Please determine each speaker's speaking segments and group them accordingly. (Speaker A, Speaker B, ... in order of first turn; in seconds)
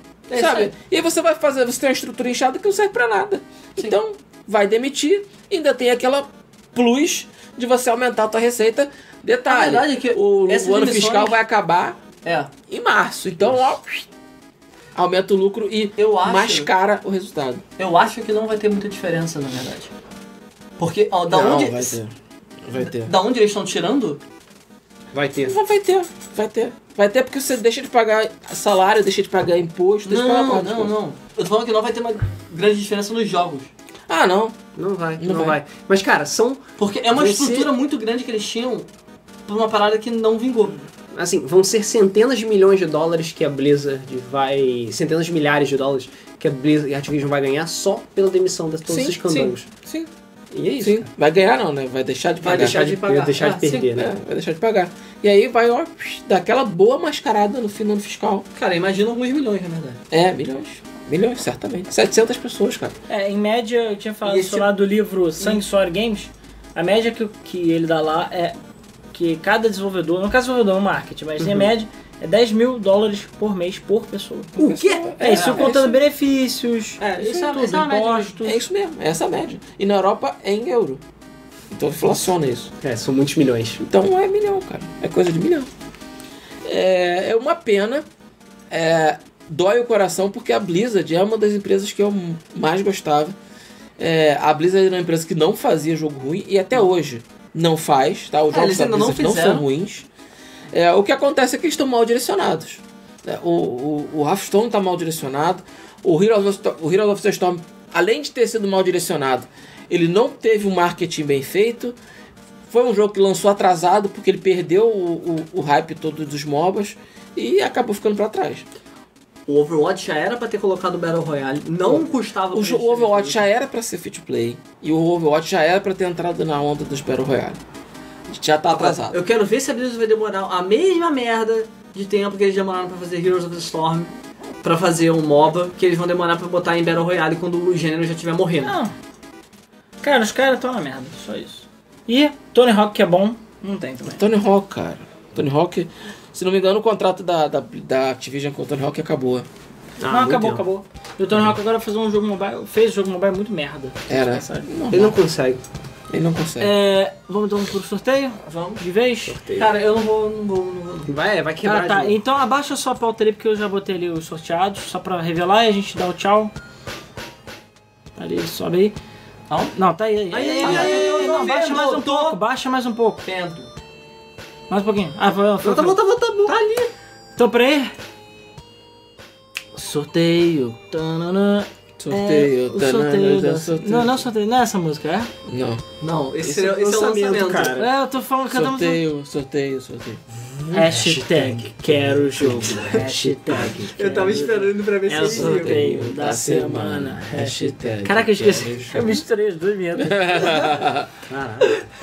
Speaker A: 0.3-0.7, 9.5-11.4, 12.2-12.5, 16.0-16.7, 17.8-19.9, 20.8-22.0, 22.8-24.2, 30.1-33.7, 36.8-38.9, 39.5-40.8, 52.4-53.9, 58.5-60.0, 64.2-64.7, 77.0-78.4, 98.5-99.7, 119.5-123.4, 128.7-138.8, 158.5-158.8, 159.5-161.1, 169.5-169.8, 170.3-172.4, 173.2-173.7, 176.4-176.9, 186.0-187.7, 193.8-195.9
Speaker B: 0.3-12.0, 12.7-14.1, 14.9-17.6, 21.3-22.1, 22.6-23.1, 25.5-30.9, 34.1-34.6, 35.2-35.6, 37.1-37.7, 48.9-50.1, 50.8-52.9, 53.9-58.5, 60.1-62.9, 74.6-75.9, 78.4-81.0, 81.7-82.7, 83.8-85.7, 86.6-88.0, 88.7-93.3, 94.0-100.1, 100.7-112.0, 112.7-118.6, 121.8-127.6, 128.3-129.2, 144.1-149.5, 154.1-155.2, 156.1-156.7, 182.0-184.3, 185.4-185.8, 188.5-190.2, 195.1-199.2, 200.0-201.1
Speaker C: 25.1-25.6, 34.8-36.6, 41.1-49.7, 50.5-51.1, 52.5-54.1, 74.6-75.8, 82.8-83.8, 150.0-150.6, 154.9-155.6, 159.2-159.7, 161.1-162.2, 170.6-171.2, 175.6-176.6, 186.4-187.9, 190.6-193.9, 197.4-197.9, 198.6-198.9, 201.3-201.8
Speaker D: 63.1-68.5, 69.1-74.6, 75.2-78.6, 138.6-138.9, 140.0-144.2, 150.1-154.7, 156.6-159.4, 161.6-166.5, 168.2-168.9, 169.7-173.2, 174.7-176.0, 177.3-177.9, 179.7-185.3, 187.7-189.0, 190.7-200.8